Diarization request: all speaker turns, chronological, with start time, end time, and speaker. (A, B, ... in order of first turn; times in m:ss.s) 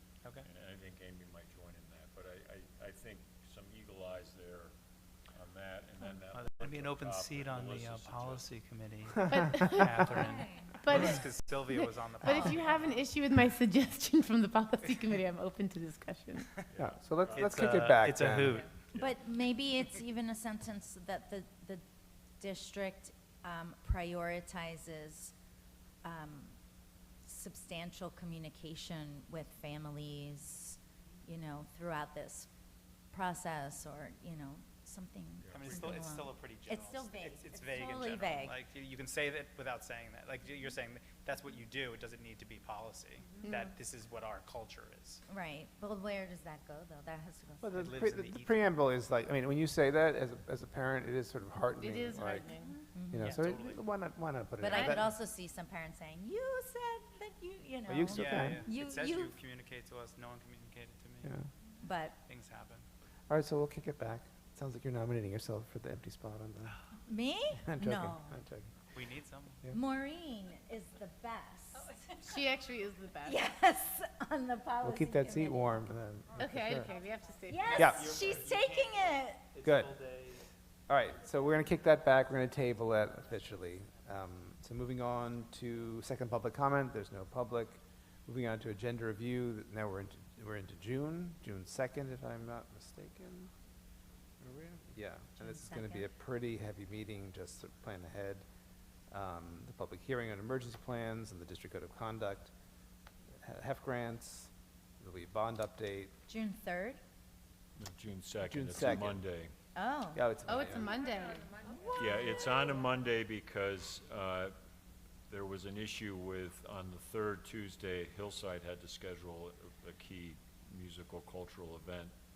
0:00.4-0:04.7 A
0:05.3-0:08.5 A
0:06.3-0:12.8 B
0:09.3-0:10.2 C
0:10.1-0:10.7 D
0:10.8-0:16.5 C
0:16.7-0:18.0 A
0:16.8-0:18.7 E
0:17.3-0:18.7 B
0:18.9-0:19.2 A
0:18.9-0:21.8 D
0:22.4-0:25.3 D
0:26.0-0:26.6 D
0:27.2-0:32.5 D
0:33.1-0:38.6 D
0:35.4-0:36.1 A
0:35.5-0:45.2 B
0:45.3-0:47.9 D
0:47.6-0:52.5 E
0:47.8-0:48.6 B
0:51.8-0:52.9 C
0:52.9-0:53.3 D
0:53.1-0:55.1 E
0:53.1-0:53.8 B
0:54.6-0:59.3 D
0:57.9-0:58.7 E
0:58.1-1:01.4 B
1:01.2-1:01.5 E
1:01.8-1:02.2 D
1:02.2-1:02.8 B
1:03.3-1:06.8 E
1:07.1-1:08.4 D
1:07.5-1:08.8 E
1:08.9-1:09.6 B
1:09.7-1:11.9 D
1:12.1-1:13.5 C
1:13.2-1:15.8 D
1:14.8-1:16.9 E
1:16.4-1:18.1 C
1:17.5-1:19.4 D
1:17.8-1:18.2 E
1:17.8-1:20.5 B
1:19.6-1:20.0 E
1:20.9-1:33.5 E
1:34.4-1:38.4 E
1:35.4-1:36.1 D
1:39.1-1:42.5 E
1:43.4-1:46.1 E
1:46.3-1:47.0 D
1:47.8-1:49.5 A
1:48.4-1:49.2 E
1:49.8-1:50.3 D
1:50.1-1:51.0 E
1:50.4-1:51.9 C
1:52.0-1:54.5 A
1:55.3-2:02.1 A